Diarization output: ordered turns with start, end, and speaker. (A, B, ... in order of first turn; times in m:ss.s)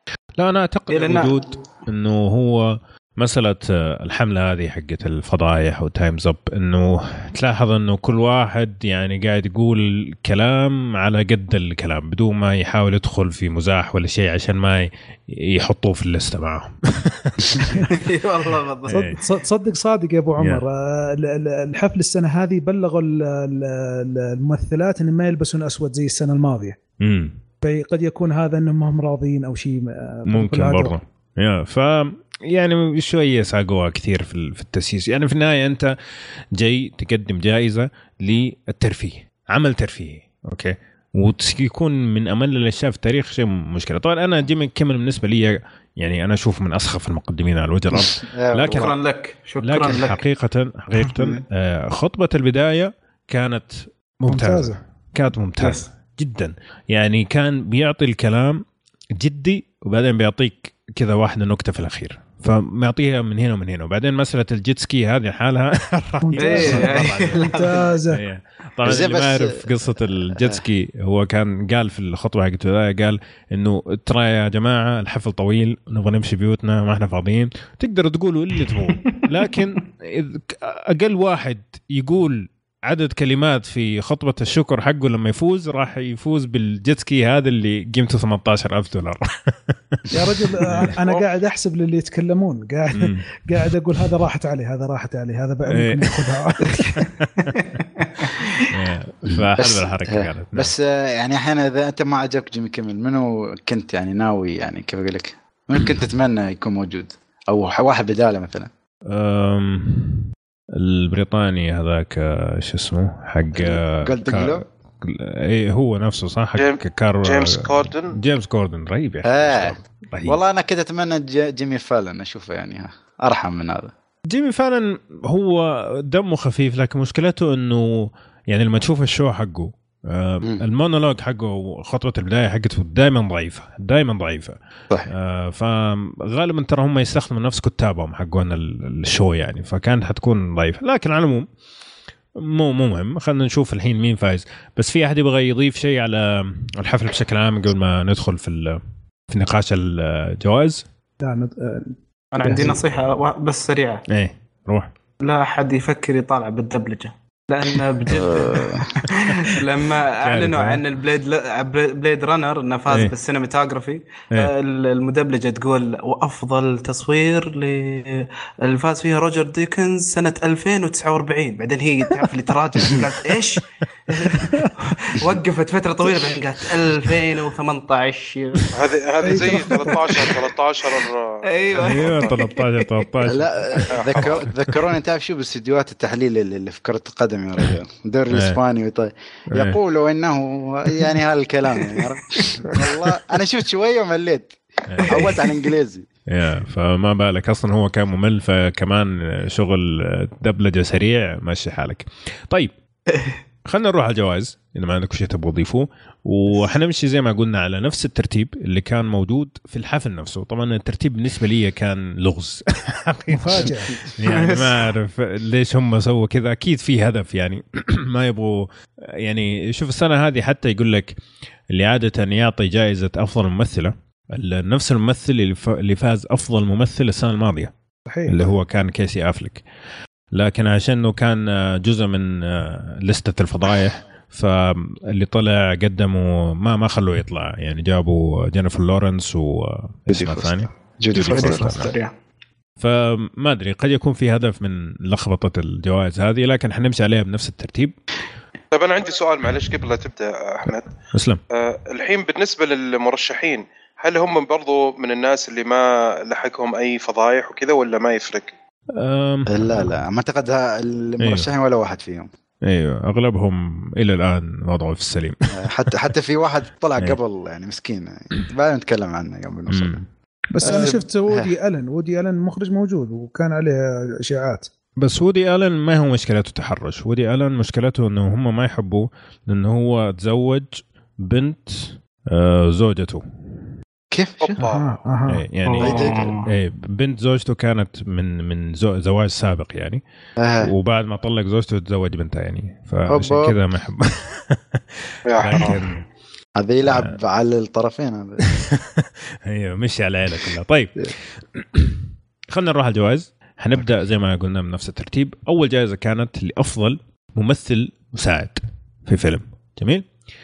0:00.4-0:17.9 A
0:00.9-0:01.4 B
0:17.7-0:19.0 B
0:18.9-0:19.1 A
0:18.9-0:26.8 C
0:27.0-0:27.4 A
0:27.6-0:31.0 C
0:30.3-0:35.9 A
0:36.5-0:48.9 A
0:48.0-0:49.0 D
0:48.7-0:50.2 B
0:49.6-0:58.6 A
0:54.3-0:54.8 C
0:59.2-1:30.9 A
1:06.2-1:08.2 C
1:06.4-1:07.7 B
1:08.8-1:09.7 D
1:10.3-1:10.6 D
1:19.0-1:19.3 B
1:30.1-1:37.1 C
1:33.0-1:33.3 A
1:35.7-1:36.5 A
1:37.4-1:38.7 B
1:38.7-1:40.7 A
1:39.6-1:48.7 D
1:49.1-2:00.4 A
1:53.5-1:54.6 D
1:56.6-1:58.2 E
1:59.2-2:03.9 D
2:04.3-2:21.5 A
2:22.4-2:30.8 A
2:31.2-2:32.8 C
2:32.3-2:34.0 B
2:34.1-2:34.9 A
2:35.2-2:58.8 B
2:38.1-2:39.0 D
2:38.2-2:39.5 A
2:40.1-2:40.8 A
2:58.7-3:02.2 E
2:59.2-3:00.0 C
2:59.3-3:00.4 B
3:01.5-3:03.1 B
3:01.7-3:04.8 A
3:03.3-3:16.1 D
3:03.9-3:04.2 E
3:08.3-3:08.6 A
3:09.5-3:09.8 A
3:14.9-3:15.4 A
3:15.0-3:15.3 B
3:16.3-3:22.7 A
3:23.1-3:23.4 B
3:23.6-3:47.7 A
3:33.3-3:34.0 C
3:34.2-3:34.9 B
3:48.1-3:48.5 C
3:48.3-3:49.6 A
3:50.3-4:01.9 A
4:00.1-4:01.9 D
4:01.2-4:02.1 B
4:02.8-4:08.0 A
4:08.7-4:10.9 E
4:11.1-4:11.4 A
4:11.5-4:18.5 E
4:19.0-4:19.8 A
4:19.5-4:22.3 D
4:21.2-4:21.5 A
4:22.6-4:25.9 A
4:25.5-4:30.0 D
4:29.7-4:30.1 A
4:30.5-4:34.7 C
4:30.6-4:31.5 D
4:35.0-4:43.2 A
4:44.1-4:44.6 D
4:44.4-4:45.0 E
4:44.6-4:45.4 C
4:45.3-4:50.0 A
4:45.6-4:46.5 B
4:45.8-4:46.3 D
4:50.4-4:50.7 D
4:50.6-4:56.0 A
4:53.1-4:53.6 D
4:55.2-4:55.8 E
4:56.6-4:58.4 D
4:56.8-4:57.2 A
4:58.4-5:10.1 A